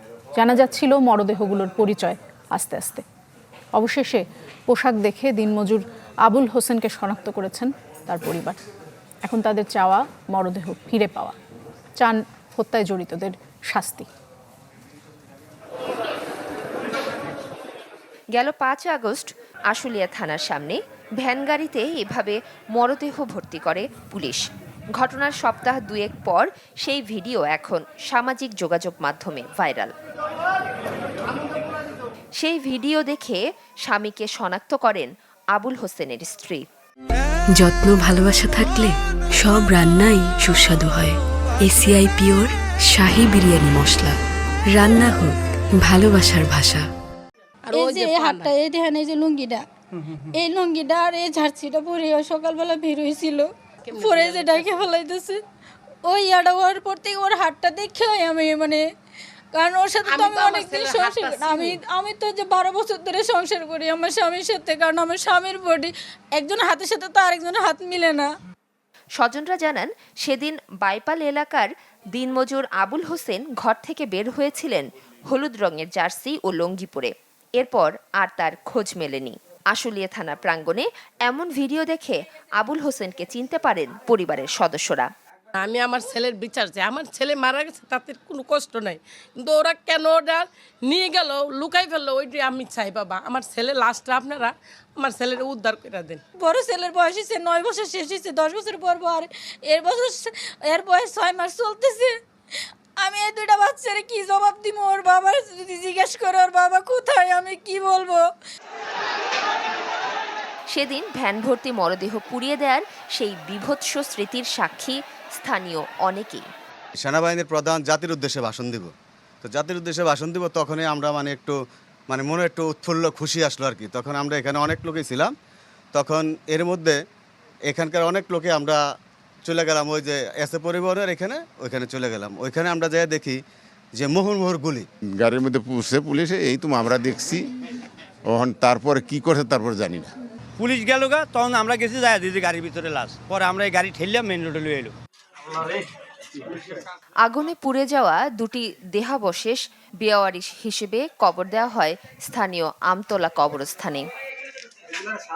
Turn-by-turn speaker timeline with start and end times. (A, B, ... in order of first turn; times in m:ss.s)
0:00.4-0:03.0 A
0:03.8-0:08.6 A
0:09.2-0:11.4 A
0:12.0-0:14.1 A
0:18.3-0:24.4 B
0:25.0-0:29.9 B
0:32.4-0:36.6 B
0:37.5-0:44.2 C
0:44.7-0:46.9 C
0:47.7-0:48.5 D
0:47.7-0:49.6 E
0:50.2-0:55.4 E
0:53.9-0:54.8 D
0:56.1-0:58.8 E
0:59.6-1:08.3 E
1:00.1-1:01.8 D
1:09.2-1:25.1 B
1:25.6-1:36.2 D
1:36.4-1:42.1 E
1:43.0-1:48.2 E
1:50.7-1:56.5 B
1:57.0-1:58.9 F
1:59.4-2:01.6 F
2:02.1-2:05.3 F
2:05.9-2:07.0 F
2:07.7-2:08.8 F
2:09.4-2:13.4 F
2:14.0-2:14.9 F
2:15.2-2:17.5 G
2:18.3-2:20.1 G
2:20.6-2:24.9 H
2:27.2-2:34.1 B